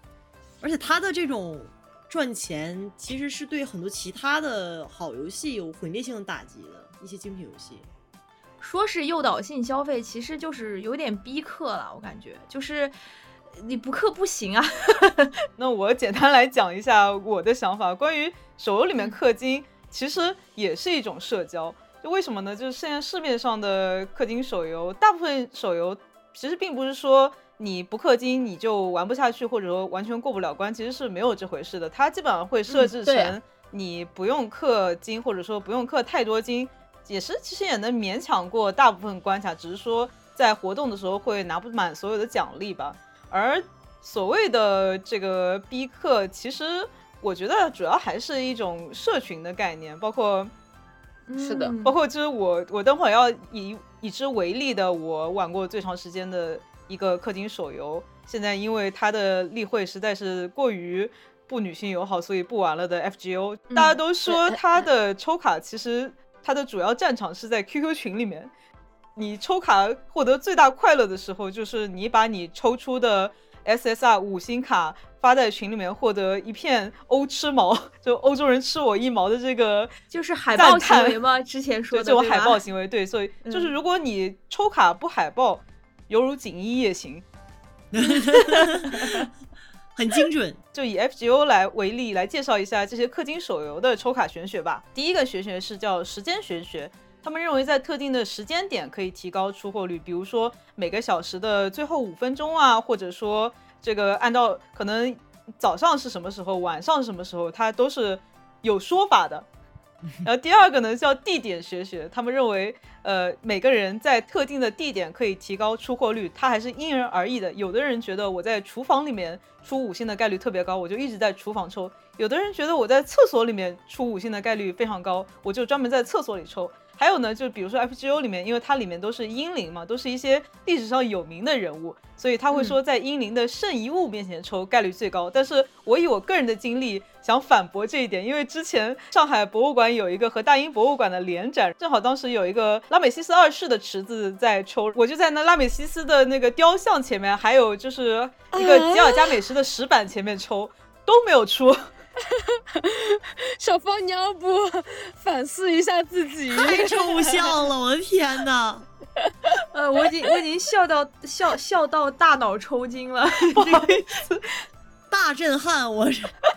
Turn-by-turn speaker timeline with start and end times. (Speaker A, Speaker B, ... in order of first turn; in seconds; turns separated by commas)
Speaker A: 0.6-7.9, Speaker B: 8.6-12.9, Speaker B: 13.6-15.3, Speaker C: 15.6-50.5, Speaker D: 32.7-33.4, Speaker B: 51.3-52.0, Speaker D: 51.4-51.7, Speaker C: 51.8-68.5, Speaker B: 63.7-64.0, Speaker D: 64.2-64.6, Speaker C: 69.2-79.9, Speaker B: 80.1-82.6, Speaker C: 80.5-81.2, Speaker C: 81.9-87.2, Speaker B: 83.4-83.7, Speaker A: 87.9-89.1, Speaker B: 88.1-89.2, Speaker A: 89.9-90.6, Speaker C: 90.7-109.5, Speaker C: 110.2-151.9, Speaker B: 132.5-132.8, Speaker D: 148.5-149.4, Speaker D: 152.7-157.5, Speaker A: 156.5-158.8, Speaker B: 159.7-163.9, Speaker C: 163.5-164.5, Speaker A: 165.1-166.3